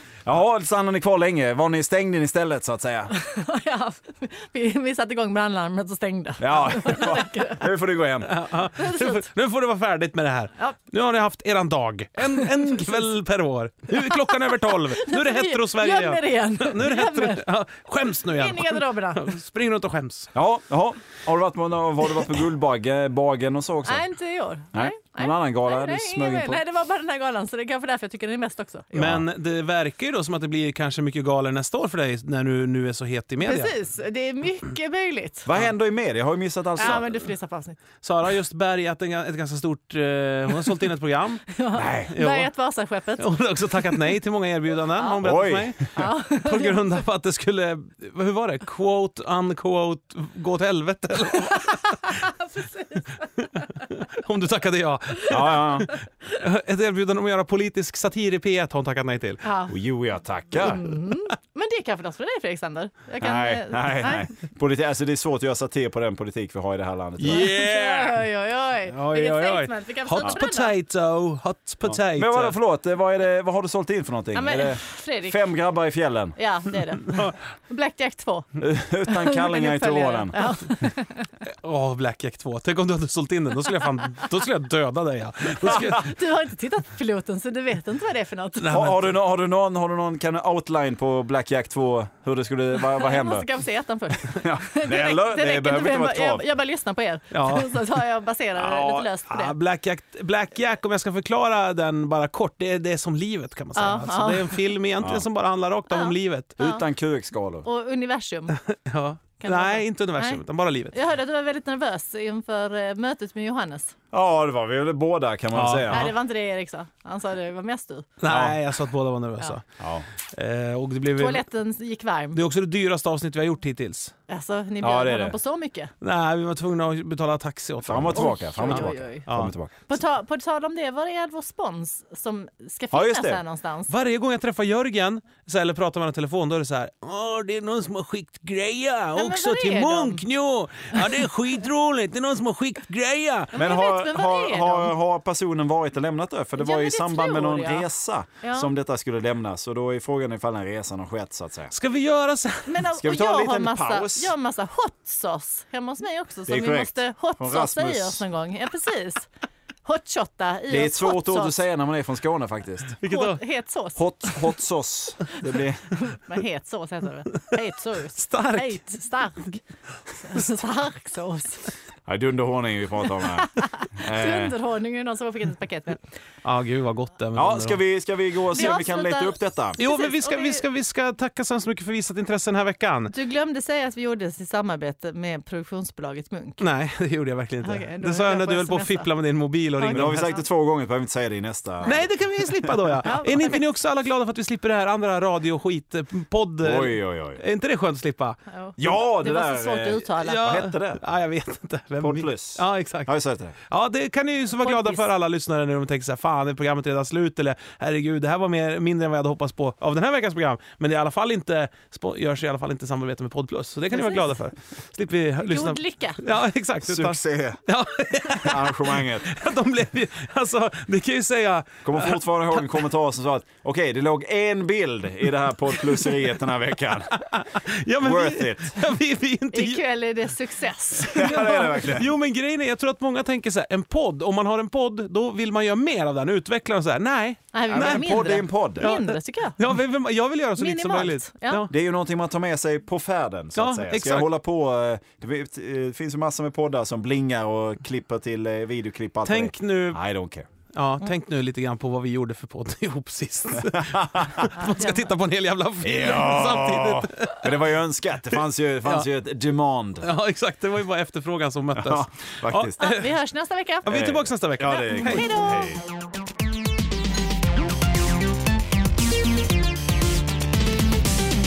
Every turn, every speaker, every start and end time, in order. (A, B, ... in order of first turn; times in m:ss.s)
0:00.2-0:03.2 A
0:03.1-0:07.7 B
0:06.4-0:08.3 A
0:08.2-0:20.3 C
0:08.8-0:09.3 B
0:12.2-0:13.1 B
0:13.9-0:17.4 B
0:18.2-0:19.3 B
0:20.4-0:24.0 A
0:23.8-0:28.9 B
0:24.7-0:26.6 A
0:28.9-0:33.7 C
0:29.0-0:29.2 A
0:33.4-0:35.5 B
0:35.5-0:37.3 A
0:36.8-0:37.8 B
0:38.0-0:42.5 C
0:41.5-0:43.4 B
0:41.8-0:42.1 A
0:43.2-0:52.2 C
0:45.0-0:45.2 B
0:45.2-0:45.9 A
0:46.0-0:46.9 B
0:51.4-0:53.6 B
0:53.4-0:59.4 C
0:55.3-0:56.0 A
0:59.4-0:59.7 B
0:59.7-1:00.9 A
1:00.6-1:04.3 B
1:03.2-1:07.6 A
1:07.2-1:08.2 C
1:07.3-1:10.7 B
1:08.9-1:12.6 C
1:11.9-1:16.4 A
1:14.3-1:15.4 B
1:16.4-1:21.3 B
1:17.0-1:17.4 C
1:18.6-1:20.7 A
1:21.5-1:26.1 C
1:25.6-1:29.0 B
1:28.6-1:29.0 C
1:28.6-1:33.5 A
1:32.8-1:39.6 B
1:34.2-1:36.4 A
1:37.3-1:38.0 C
1:38.6-1:46.6 C
1:43.8-1:44.6 B
1:45.9-1:46.8 B
1:46.6-1:47.7 A
1:47.6-1:48.6 B
1:48.6-1:51.0 C
1:49.4-1:54.0 B
1:54.1-1:56.1 A
1:55.5-1:56.1 C
1:55.9-1:58.1 B
1:58.2-1:59.6 C
1:58.3-1:58.6 A
1:59.8-2:00.0 A
2:00.3-2:01.4 C
2:01.1-2:02.4 B
2:02.3-2:04.1 C
2:04.3-2:05.9 B
2:04.8-2:05.4 A
2:06.0-2:09.5 C
2:07.8-2:09.9 A
2:08.1-2:09.3 B
2:09.9-2:13.9 B
2:12.9-2:13.4 A
2:13.9-2:23.6 C
2:19.2-2:20.2 B
2:23.5-2:24.9 B
2:23.5-2:31.7 A
2:26.6-2:27.9 B
2:28.4-2:28.7 B
2:31.7-2:32.8 C
2:32.7-2:39.3 B
2:32.9-2:34.3 A
2:36.5-2:38.2 A
2:39.8-2:41.6 B
2:40.7-2:43.0 A
2:43.0-2:43.4 C
2:43.0-2:44.0 B
2:44.0-2:46.0 A
2:45.9-2:49.6 B
2:48.2-2:48.8 C
2:50.2-2:51.7 B
2:52.1-2:54.6 A
2:53.2-2:56.0 B
2:56.4-2:57.8 C
2:57.4-2:59.8 A
2:58.5-3:00.6 B
2:59.8-3:03.1 C
3:03.1-3:06.6 B
3:06.6-3:10.4 C
3:07.6-3:09.1 B
3:09.8-3:10.4 B
3:09.9-3:13.0 A
3:11.8-3:18.4 C
3:13.0-3:13.6 B
3:16.6-3:17.4 A
3:18.5-3:20.5 B
3:18.8-3:21.0 A
3:20.2-3:23.1 C
3:22.0-3:23.6 A
3:23.7-3:42.6 C
3:24.6-3:25.0 B
3:33.9-3:34.3 B
3:35.4-3:36.2 B
3:36.9-3:37.6 A
3:38.3-3:39.3 A
3:41.8-3:47.2 A
3:47.1-3:49.8 C
3:48.0-3:48.9 A
3:49.5-3:52.0 B
3:51.0-3:52.1 A
3:51.2-3:58.1 C
3:57.5-3:59.6 B
3:57.7-3:58.9 A
3:58.8-4:01.7 C
4:00.6-4:01.6 B
4:01.7-4:10.5 A
4:03.6-4:04.3 C
4:09.3-4:10.0 C
4:10.7-4:17.6 C
4:13.6-4:14.5 A
4:14.6-4:15.1 B
4:15.8-4:20.1 A
4:20.0-4:23.0 C
4:21.8-4:22.8 A
4:22.8-4:24.1 B
4:23.8-4:25.3 C
4:23.9-4:25.8 A
4:24.7-4:25.8 B